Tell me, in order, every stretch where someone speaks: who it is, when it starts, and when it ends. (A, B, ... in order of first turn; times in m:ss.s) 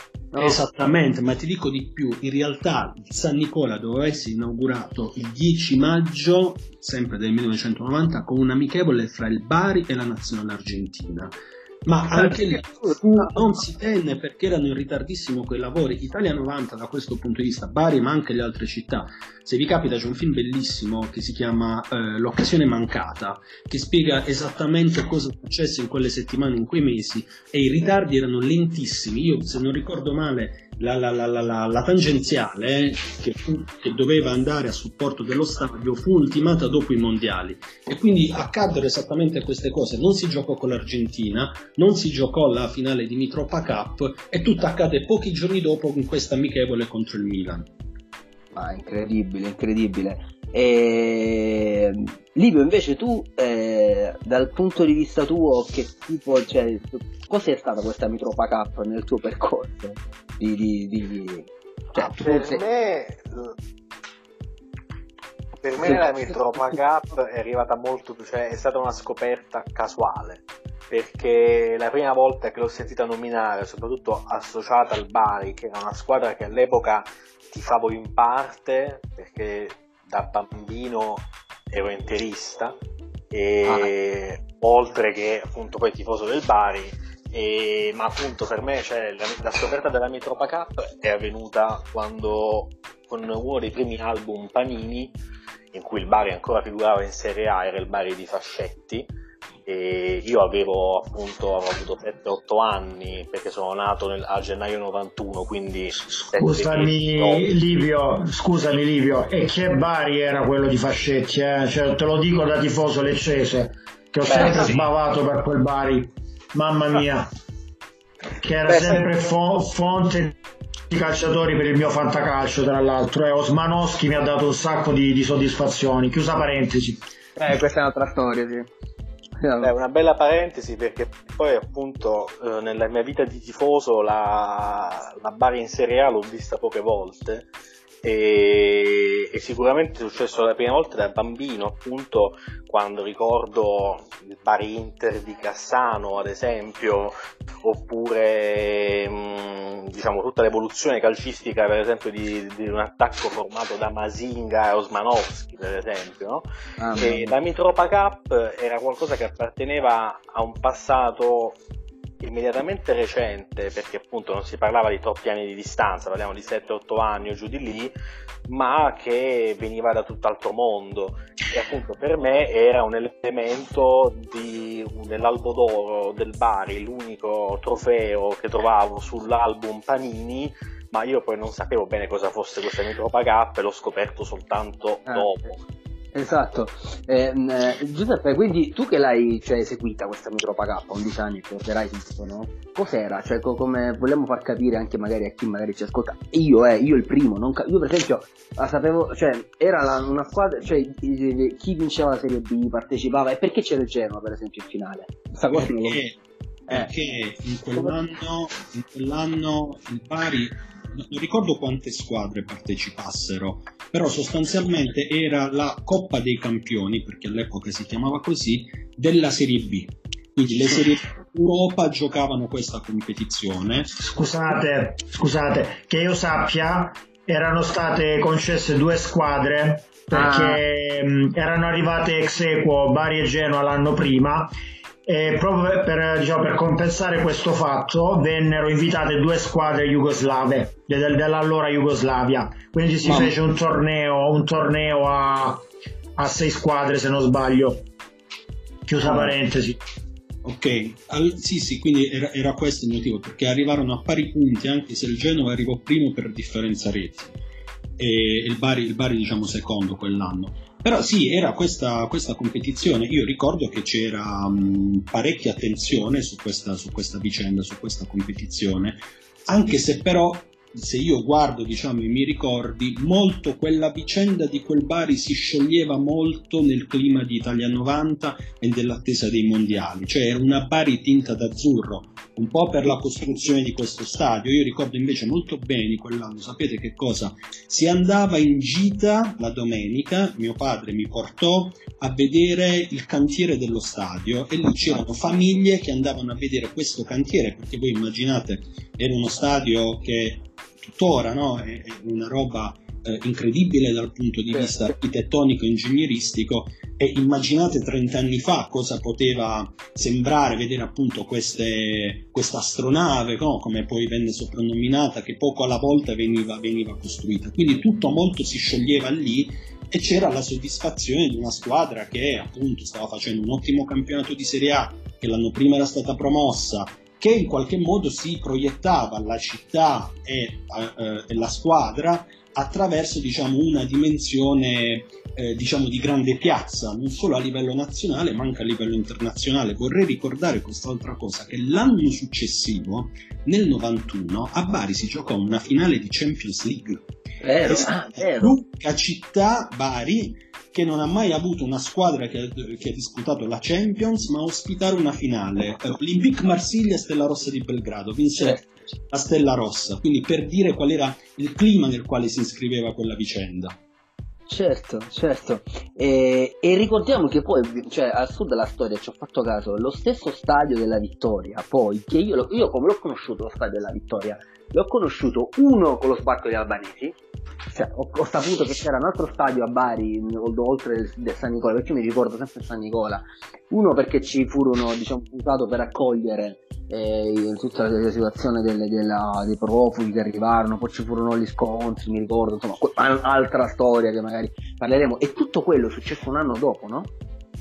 0:00.3-0:00.6 A
0:00.4-0:11.3 B
0:11.9-0:47.7 B
0:12.2-0:13.3 A
0:48.5-1:02.6 A
1:01.9-1:03.5 C
1:05.6-1:22.8 C
1:05.8-1:06.4 A
1:23.3-1:35.1 C
1:35.7-1:39.1 C
1:39.7-1:47.5 C
1:46.1-1:57.3 D
1:54.3-1:54.8 C
1:58.4-2:00.4 D
2:00.9-2:07.0 D
2:07.4-2:08.7 A
2:09.4-2:09.7 A
2:09.6-2:17.5 C
2:18.0-2:41.6 C
2:36.8-2:37.4 A
2:42.2-2:47.9 C
2:48.5-3:05.6 C
3:06.1-3:26.0 A
3:25.5-3:26.2 B
3:26.7-3:43.9 B
3:44.0-3:54.5 D
3:50.1-3:50.6 A
3:55.1-4:05.6 D
4:06.2-4:07.9 D
4:08.9-4:09.8 D
4:10.4-4:17.4 B
4:18.0-5:47.0 B
5:47.4-5:48.6 A
5:47.7-6:03.8 B
6:04.5-6:17.2 A
6:17.7-6:37.1 A